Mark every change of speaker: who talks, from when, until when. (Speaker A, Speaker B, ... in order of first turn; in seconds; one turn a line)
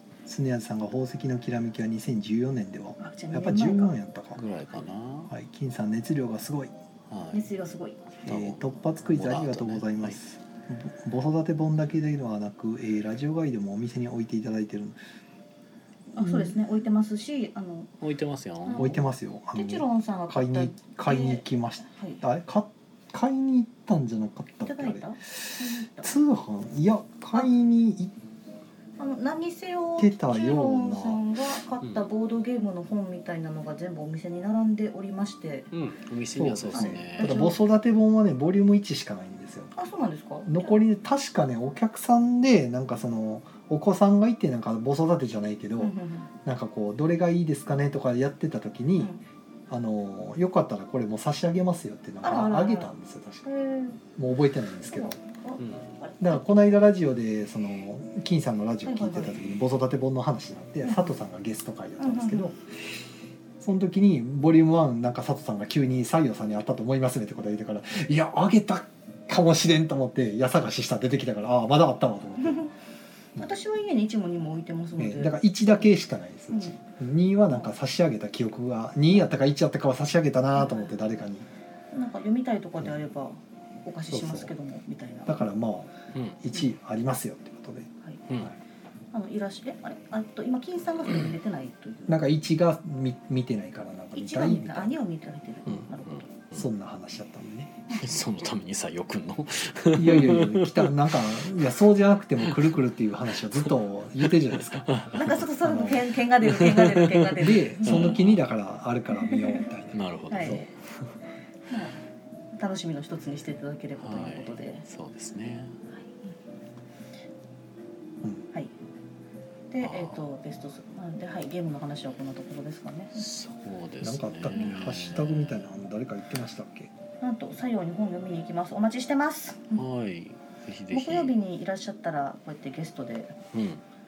Speaker A: 0.2-4.4
Speaker B: 3.0-4.0
Speaker C: 4.3-5.3
Speaker A: 5.3-6.7
Speaker C: 7.1-7.5
Speaker B: 7.3-8.2
Speaker C: 8.2-10.2
Speaker A: 8.2-15.0
Speaker B: 16.1-17.9
Speaker A: 16.1-16.6
Speaker C: 18.0-18.9
Speaker B: 18.7-19.0
Speaker A: 18.8-25.4
Speaker B: 19.5-22.2
Speaker B: 24.6-26.1
Speaker A: 26.0-28.1
Speaker B: 29.0-35.7
Speaker A: 30.0-31.2
Speaker C: 35.7-37.4
Speaker A: 36.4-39.7
Speaker B: 36.7-37.6
Speaker B: 39.8-40.8
Speaker A: 40.4-45.9
Speaker B: 45.8-46.3
Speaker A: 46.4-49.1
Speaker A: 49.7-53.5
Speaker B: 52.2-52.9
Speaker B: 53.5-54.0
Speaker A: 54.1-55.2
Speaker B: 54.9-56.6
Speaker A: 56.2-62.6
Speaker B: 58.8-59.5
Speaker B: 60.8-61.1
Speaker B: 62.0-62.5
Speaker A: 63.6-72.7
Speaker B: 72.4-72.7
Speaker B: 73.4-75.4
Speaker A: 75.0-81.5
Speaker B: 80.5-80.9
Speaker B: 81.9-85.4
Speaker A: 84.1-84.5
Speaker A: 85.2-88.5
Speaker B: 89.1-92.3
Speaker A: 92.1-95.0
Speaker B: 94.1-96.3
Speaker C: 95.7-96.7
Speaker A: 96.5-97.8
Speaker B: 97.9-98.2
Speaker C: 97.9-101.5
Speaker A: 99.9-105.0
Speaker C: 102.4-102.7
Speaker C: 104.2-105.5
Speaker B: 105.1-108.1
Speaker A: 105.6-106.1
Speaker C: 106.4-108.5
Speaker A: 107.4-110.6
Speaker B: 109.1-109.7
Speaker C: 109.9-110.7
Speaker B: 110.3-110.7
Speaker B: 111.7-112.0
Speaker B: 112.5-114.8
Speaker C: 114.0-115.8
Speaker B: 119.7-123.2
Speaker C: 119.8-120.2
Speaker C: 123.1-125.6
Speaker A: 124.0-126.9
Speaker B: 124.5-124.8
Speaker B: 127.2-129.8
Speaker C: 129.7-131.3
Speaker B: 130.9-133.3
Speaker C: 133.5-133.8